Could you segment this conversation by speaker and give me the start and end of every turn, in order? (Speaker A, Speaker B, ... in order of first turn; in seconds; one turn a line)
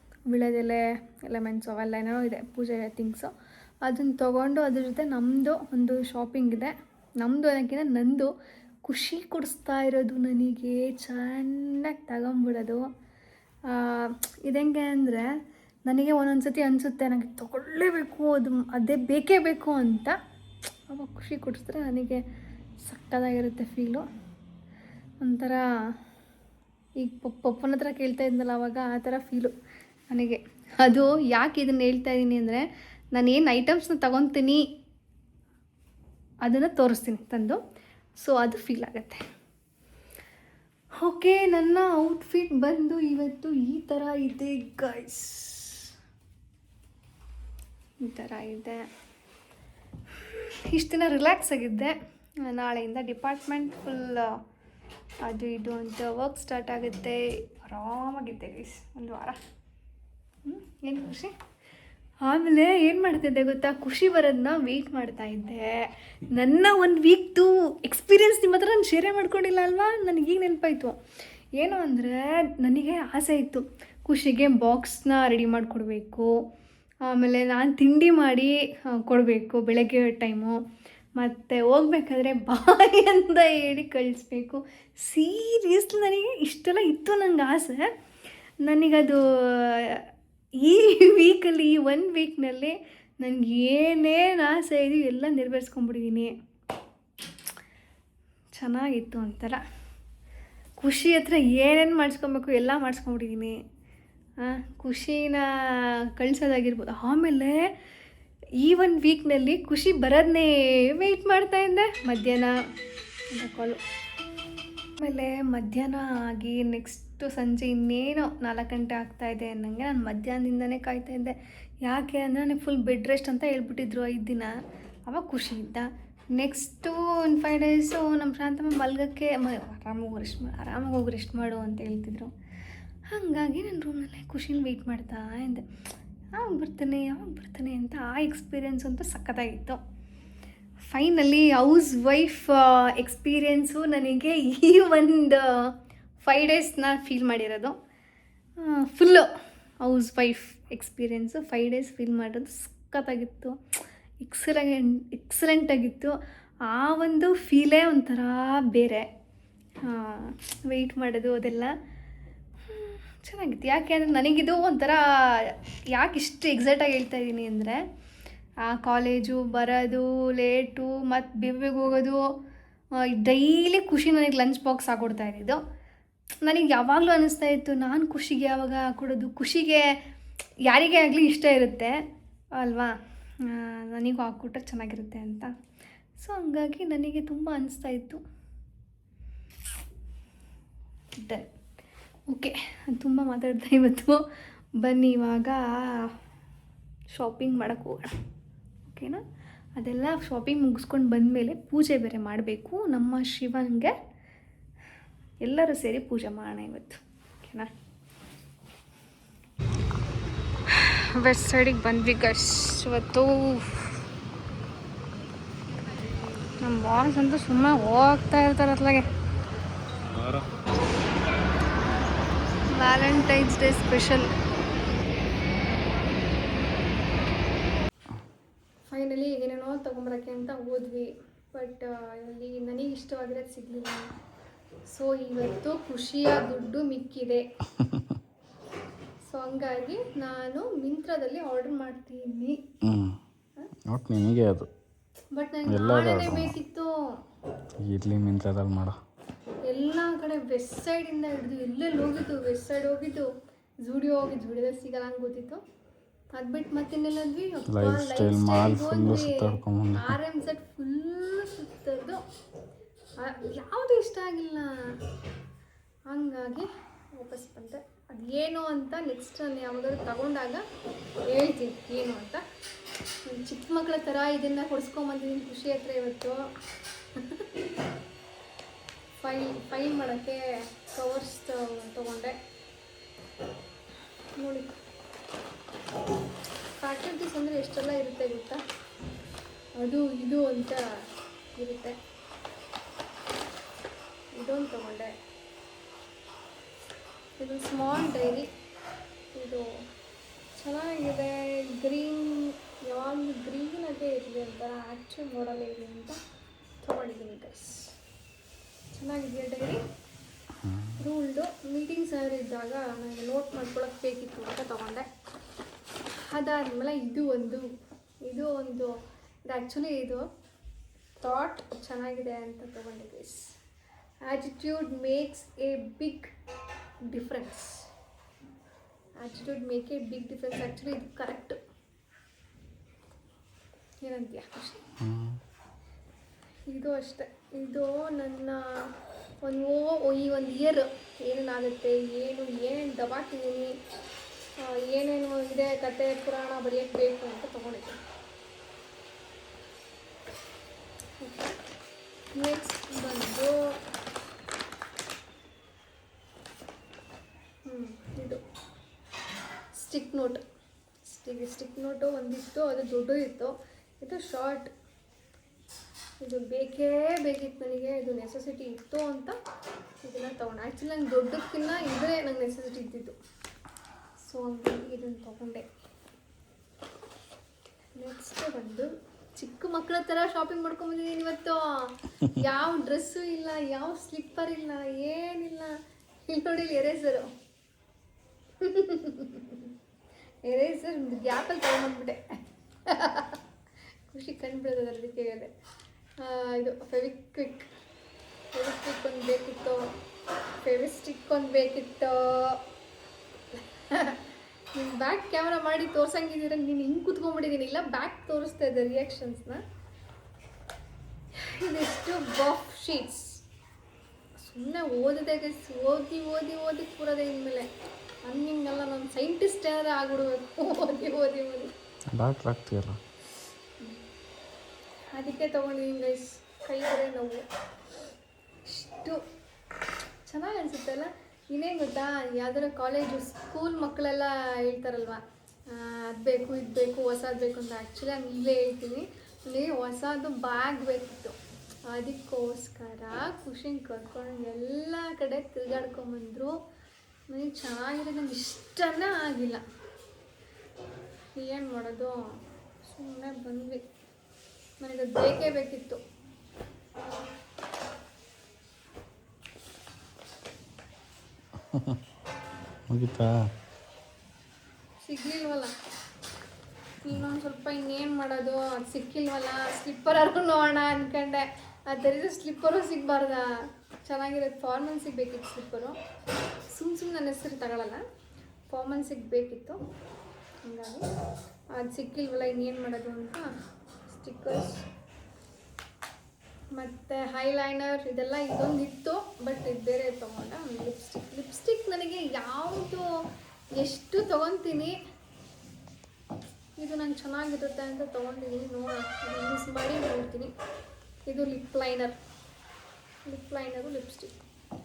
Speaker A: 0.3-3.3
Speaker A: 3.8-8.3
Speaker A: 8.8-12.9
Speaker A: 13.7-15.3
Speaker A: 15.9-20.2
Speaker A: 20.9-22.2
Speaker A: 22.8-24.1
Speaker A: 25.2-25.6
Speaker A: 27.0-29.5
Speaker A: 30.1-34.6
Speaker A: 36.4-37.6
Speaker A: 38.2-39.2
Speaker A: 41.0-45.9
Speaker A: 48.0-48.9
Speaker A: 50.1-54.4
Speaker A: 55.2-59.4
Speaker A: 60.4-61.3
Speaker A: 62.2-71.0
Speaker A: 71.6-76.3
Speaker A: 77.0-80.6
Speaker A: 81.2-87.9
Speaker A: 88.6-90.0
Speaker A: 90.6-96.3
Speaker A: 98.5-99.6
Speaker A: 100.8-103.5
Speaker A: 104.4-107.7
Speaker A: 108.6-112.5
Speaker A: 113.3-113.8
Speaker A: 115.0-124.5
Speaker A: 125.1-132.3
Speaker A: 133.1-135.6
Speaker A: 136.3-139.8
Speaker A: 140.9-145.5
Speaker A: 146.2-147.7
Speaker A: 148.6-149.3
Speaker A: 149.8-153.5
Speaker A: 154.2-156.1
Speaker A: 156.7-159.1
Speaker A: 159.8-161.7
Speaker A: 162.7-167.8
Speaker A: 168.6-172.3
Speaker A: 173.0-175.6
Speaker A: 176.4-179.9
Speaker A: 180.7-182.0
Speaker A: 182.6-185.5
Speaker A: 186.2-188.2
Speaker A: 191.2-191.5
Speaker A: 192.3-194.2
Speaker A: 194.8-196.1
Speaker A: 197.1-198.1
Speaker A: 198.9-199.2
Speaker A: 199.8-203.9
Speaker A: 205.4-207.7
Speaker A: 210.7-214.0
Speaker A: 216.4-219.0
Speaker B: 220.0-220.4
Speaker A: 222.7-224.3
Speaker A: 228.9-234.1
Speaker A: 234.9-237.4
Speaker B: 237.8-238.1
Speaker A: 239.2-242.6
Speaker B: 242.8-243.2
Speaker B: 243.9-244.7
Speaker A: 245.3-246.9
Speaker B: 245.7-246.6
Speaker B: 247.8-249.0
Speaker A: 249.7-253.3
Speaker A: 253.8-255.6
Speaker A: 256.3-262.2
Speaker B: 257.7-260.2
Speaker A: 263.2-264.9
Speaker A: 266.1-270.6
Speaker A: 271.3-272.4
Speaker A: 273.2-276.4
Speaker A: 277.1-277.4
Speaker A: 279.2-282.3
Speaker A: 284.4-284.7
Speaker A: 286.8-288.6
Speaker A: 289.8-290.8
Speaker A: 291.6-291.9
Speaker A: 294.3-295.1
Speaker A: 297.4-298.5
Speaker A: 299.3-299.8
Speaker A: 300.5-306.2
Speaker A: 306.8-307.9
Speaker A: 308.9-309.8
Speaker B: 310.6-310.9
Speaker A: 311.0-315.1
Speaker A: 316.1-317.7
Speaker A: 318.2-318.9
Speaker A: 319.5-320.2
Speaker A: 321.2-323.5
Speaker A: 324.2-326.3
Speaker A: 327.1-327.9
Speaker A: 329.2-331.6
Speaker A: 334.0-334.8
Speaker B: 335.0-335.4
Speaker A: 336.7-343.7
Speaker A: 344.6-348.0
Speaker A: 351.2-351.6
Speaker A: 352.3-353.6
Speaker A: 357.6-358.4
Speaker A: 359.7-360.4
Speaker A: 361.0-364.7
Speaker A: 366.2-369.4
Speaker A: 370.0-373.1
Speaker A: 374.2-375.6
Speaker A: 377.9-385.7
Speaker A: 386.3-387.3
Speaker A: 388.6-389.7
Speaker A: 390.4-392.2
Speaker A: 392.9-393.4
Speaker A: 394.1-395.5
Speaker A: 396.2-397.7
Speaker A: 398.5-399.9
Speaker A: 400.6-402.6
Speaker A: 403.5-409.6
Speaker A: 411.4-413.4
Speaker A: 414.4-417.7
Speaker A: 418.2-421.7
Speaker B: 422.1-423.0
Speaker A: 425.1-427.4
Speaker A: 428.6-429.2
Speaker A: 430.2-441.4
Speaker A: 441.9-446.5
Speaker A: 447.3-449.6
Speaker A: 451.3-452.2
Speaker A: 452.8-453.8
Speaker A: 454.8-456.0
Speaker B: 462.9-463.5
Speaker A: 465.0-465.7
Speaker A: 467.0-476.0
Speaker A: 476.7-478.0
Speaker A: 478.7-479.8
Speaker A: 480.6-481.0
Speaker A: 481.7-483.5
Speaker A: 484.1-484.9
Speaker A: 486.7-493.0
Speaker A: 493.8-495.0
Speaker A: 496.8-500.5
Speaker A: 501.3-502.2
Speaker A: 503.3-504.4